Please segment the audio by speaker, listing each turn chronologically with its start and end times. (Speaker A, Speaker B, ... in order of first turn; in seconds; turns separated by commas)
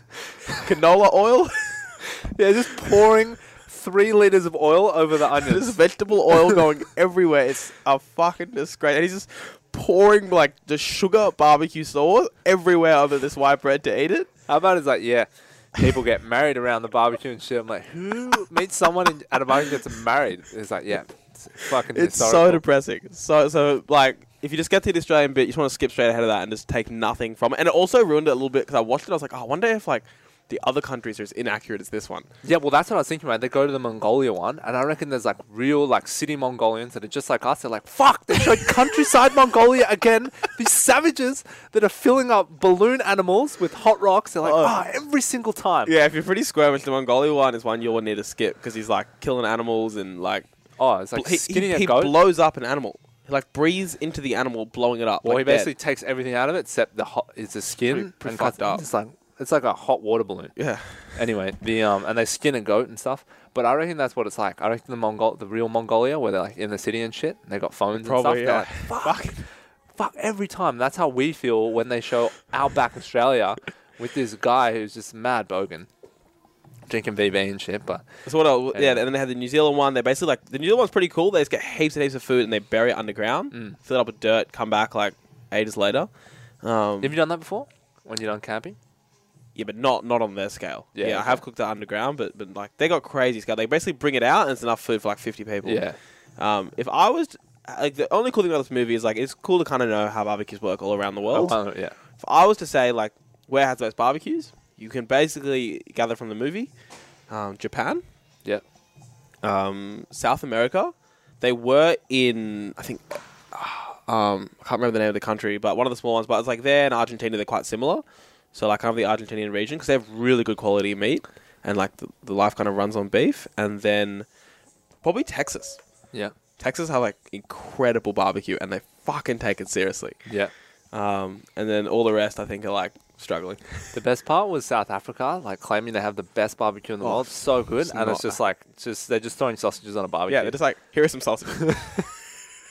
Speaker A: 0.4-2.0, Speaker B: 2.2-5.8, Speaker A: 5.4-14.3, Speaker B: 14.5-22.6, Speaker A: 21.7-32.3, Speaker B: 32.4-45.9, Speaker A: 44.4-44.8, Speaker A: 45.9-50.5, Speaker B: 50.8-52.1, Speaker A: 51.1-55.7, Speaker B: 55.2-60.5, Speaker A: 57.9-58.8, Speaker A: 60.6-61.2, Speaker B: 61.1-69.3, Speaker A: 67.9-69.5, Speaker B: 70.0-75.9, Speaker B: 76.9-78.1, Speaker A: 78.3-86.1, Speaker B: 78.7-79.0, Speaker B: 83.5-83.8, Speaker A: 86.6-87.1, Speaker B: 87.0-88.8, Speaker A: 89.5-95.8, Speaker B: 91.0-91.4, Speaker B: 95.7-96.0, Speaker A: 96.4-101.6, Speaker B: 101.3-102.0, Speaker A: 102.2-106.7, Speaker A: 107.3-108.0, Speaker A: 109.4-124.3, Speaker A: 125.0-125.8, Speaker A: 126.6-130.2, Speaker B: 130.3-130.5, Speaker A: 130.9-133.9, Speaker B: 133.9-140.6, Speaker A: 137.0-138.4, Speaker A: 140.3-142.1, Speaker B: 141.7-142.0